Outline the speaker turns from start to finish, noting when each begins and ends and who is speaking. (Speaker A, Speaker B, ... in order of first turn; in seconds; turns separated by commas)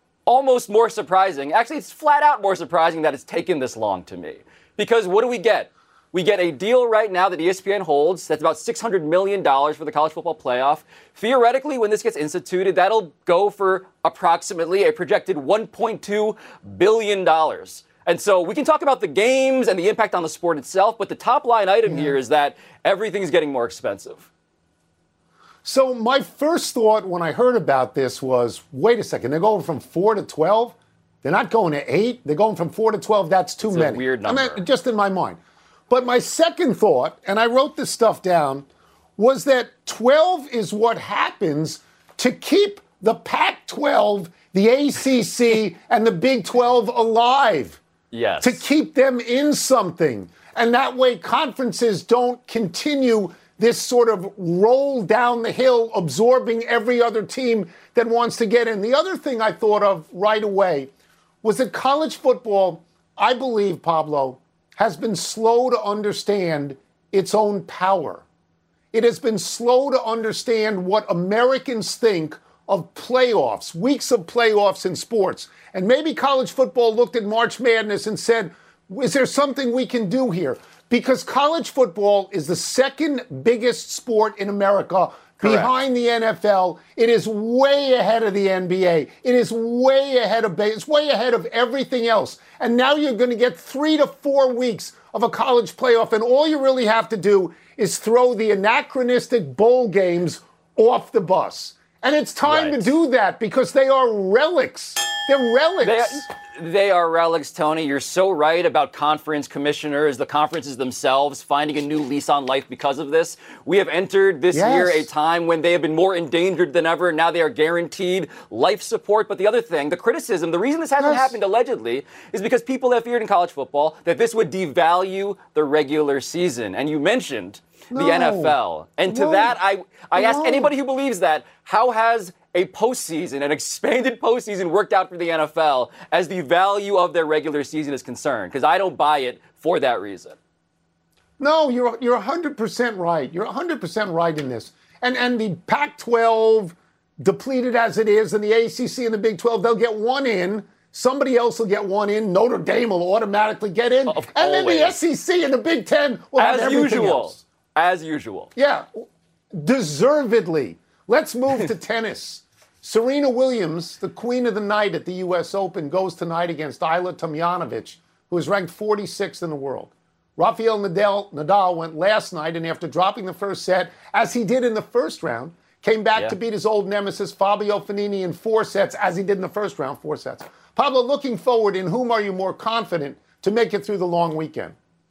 Speaker A: 0.3-24.3, Speaker B: 21.9-22.2, Speaker B: 25.6-35.4, Speaker A: 33.6-34.6, Speaker B: 35.9-47.8, Speaker A: 48.1-48.6, Speaker B: 48.4-60.9, Speaker B: 61.4-68.2, Speaker B: 68.9-106.2, Speaker A: 85.4-85.7, Speaker A: 102.5-102.9, Speaker A: 105.8-140.4, Speaker B: 114.5-115.1, Speaker B: 121.0-121.3, Speaker B: 127.9-128.6, Speaker B: 129.1-129.6, Speaker B: 130.2-130.7, Speaker B: 141.4-157.4, Speaker A: 154.1-155.0, Speaker A: 156.4-158.5, Speaker B: 158.6-158.9, Speaker B: 159.5-184.8